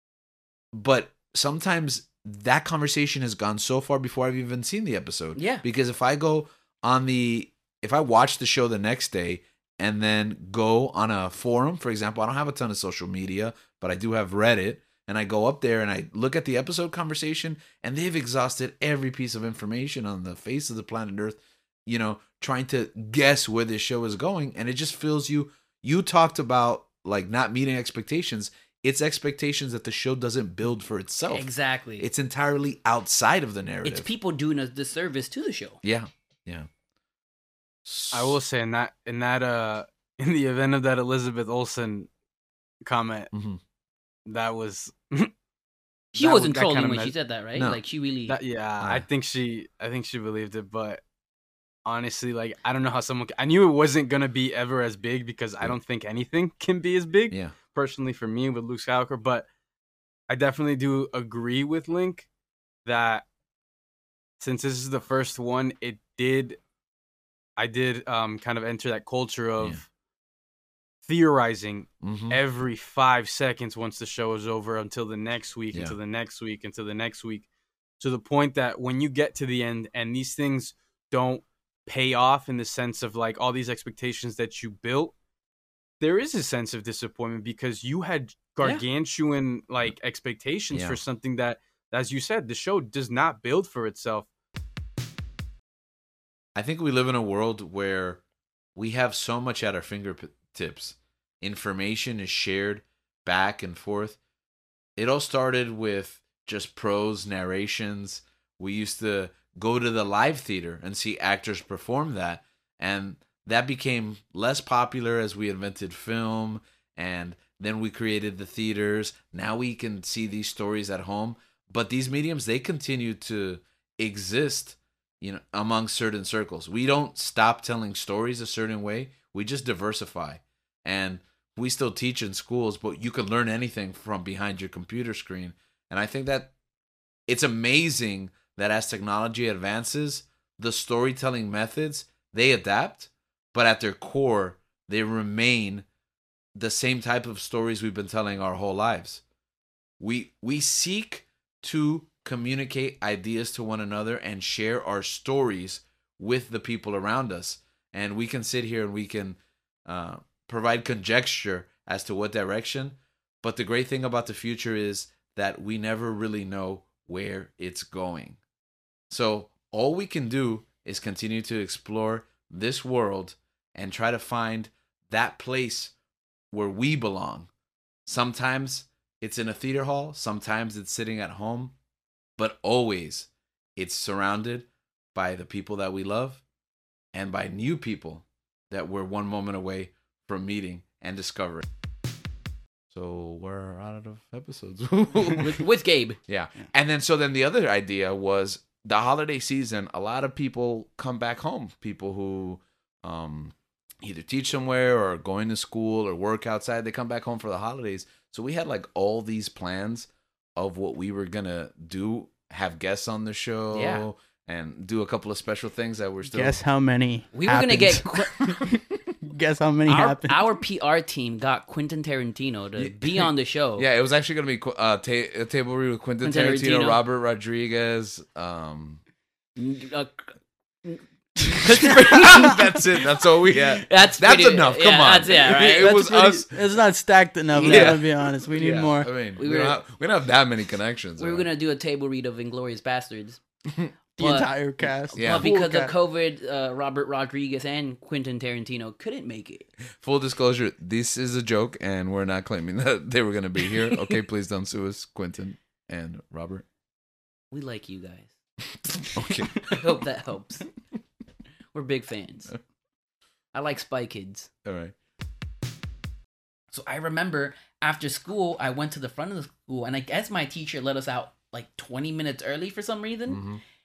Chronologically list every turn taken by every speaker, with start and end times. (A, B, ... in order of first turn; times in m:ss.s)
0:00.7-0:34.1 A
0:05.4-0:05.6 B
0:31.3-0:32.0 B
0:33.8-0:35.8 B
0:35.8-0:36.7 A
0:37.8-0:38.4 A
0:38.1-0:42.1 C
0:42.8-0:43.3 C
0:43.3-0:43.6 A
0:44.2-0:45.3 C
0:46.1-0:47.1 C
0:46.1-0:48.4 B
0:47.6-0:47.8 A
0:48.3-0:51.0 C
0:48.8-0:49.1 A
0:51.8-0:59.4 C
0:57.3-0:57.6 A
1:00.3-1:02.3 C
1:02.8-1:03.2 C
1:04.4-1:06.6 C
1:07.6-1:09.8 C
1:11.0-1:17.4 C
1:12.0-1:12.4 A
1:15.7-1:16.0 A
1:18.0-1:25.1 C
1:26.0-1:34.3 C
1:30.7-1:31.0 A
1:36.5-1:38.2 A
1:38.8-1:44.2 A
1:45.0-2:16.5 A
2:17.3-2:25.8 A
2:26.6-2:29.2 A
2:30.0-2:48.4 A
2:49.1-2:55.9 A
2:56.5-2:57.5 A
2:58.0-3:01.7 A
3:02.4-3:06.4 A
3:07.1-3:11.6 A
3:12.9-3:15.6 A
3:15.4-3:16.2 B
3:16.3-3:36.6 A
3:33.7-3:34.0 B
3:36.2-3:40.5 D
3:37.3-3:38.6 B
3:39.9-3:43.9 B
3:42.8-3:49.0 A
3:46.2-3:47.0 B
3:49.6-3:50.3 B
3:50.8-3:56.1 B
3:51.6-3:56.6 A
3:55.8-3:59.1 D
3:57.5-3:58.0 B
3:57.5-4:01.5 A
3:59.4-3:59.8 B
4:01.2-4:03.4 B
4:04.2-4:05.9 D
4:04.2-4:09.7 B
4:05.2-4:05.5 A
4:10.0-4:16.6 A
4:17.5-4:18.3 B
4:18.9-4:19.6 A
4:19.6-4:20.6 B
4:21.7-4:22.5 B
4:23.5-4:24.5 B
4:24.6-4:24.9 A
4:26.7-4:33.4 B
4:33.3-4:33.6 A